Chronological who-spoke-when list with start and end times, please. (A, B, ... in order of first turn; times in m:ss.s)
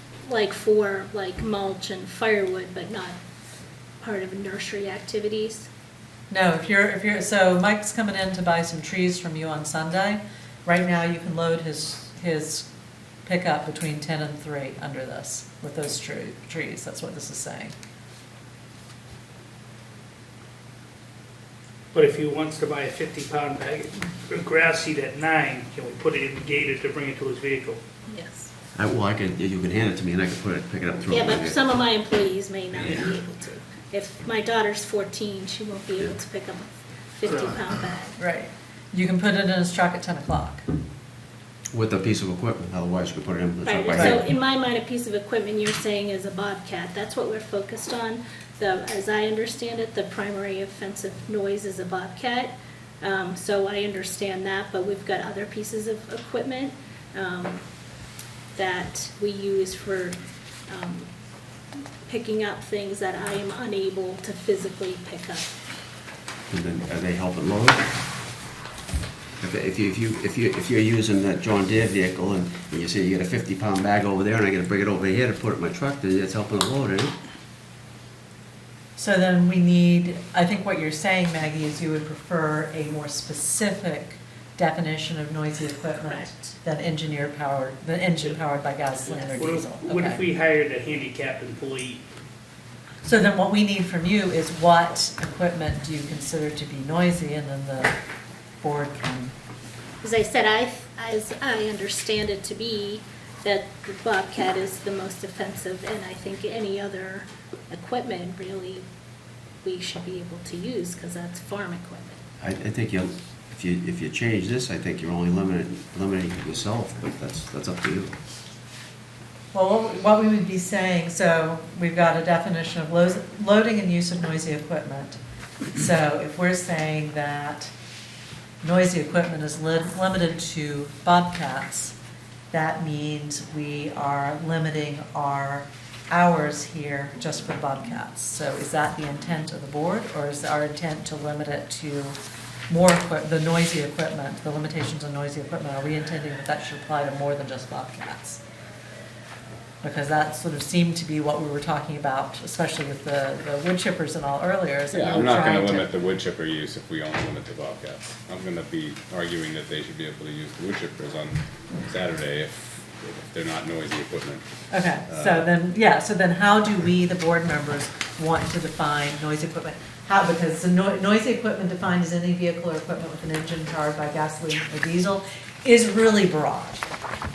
0:00.2-0:03.2 A
0:04.0-0:05.7 A
0:06.3-0:12.7 B
0:13.2-0:17.7 B
0:21.9-0:27.8 C
0:28.1-0:28.5 A
0:28.8-0:31.8 D
0:31.1-0:38.2 A
0:32.8-0:33.1 D
0:37.2-0:37.6 C
0:38.2-0:40.6 B
0:41.7-0:44.3 D
0:43.6-0:57.6 A
0:58.5-1:01.1 A
1:02.0-1:05.5 A
1:06.5-1:07.8 D
1:09.4-1:17.1 D
1:19.0-1:30.2 B
1:25.9-1:26.5 A
1:29.0-1:29.5 A
1:29.4-1:32.0 C
1:33.0-1:38.0 B
1:38.6-1:39.3 B
1:40.0-1:48.8 A
1:49.6-1:52.2 A
1:52.4-1:58.1 D
1:59.5-2:05.2 B
2:05.7-2:07.7 B
2:08.6-2:12.0 B
2:12.5-2:22.2 B
2:22.7-2:28.4 B
2:29.8-2:35.8 B
2:34.9-2:44.4 E
2:44.7-2:56.8 B
2:45.0-2:45.5 E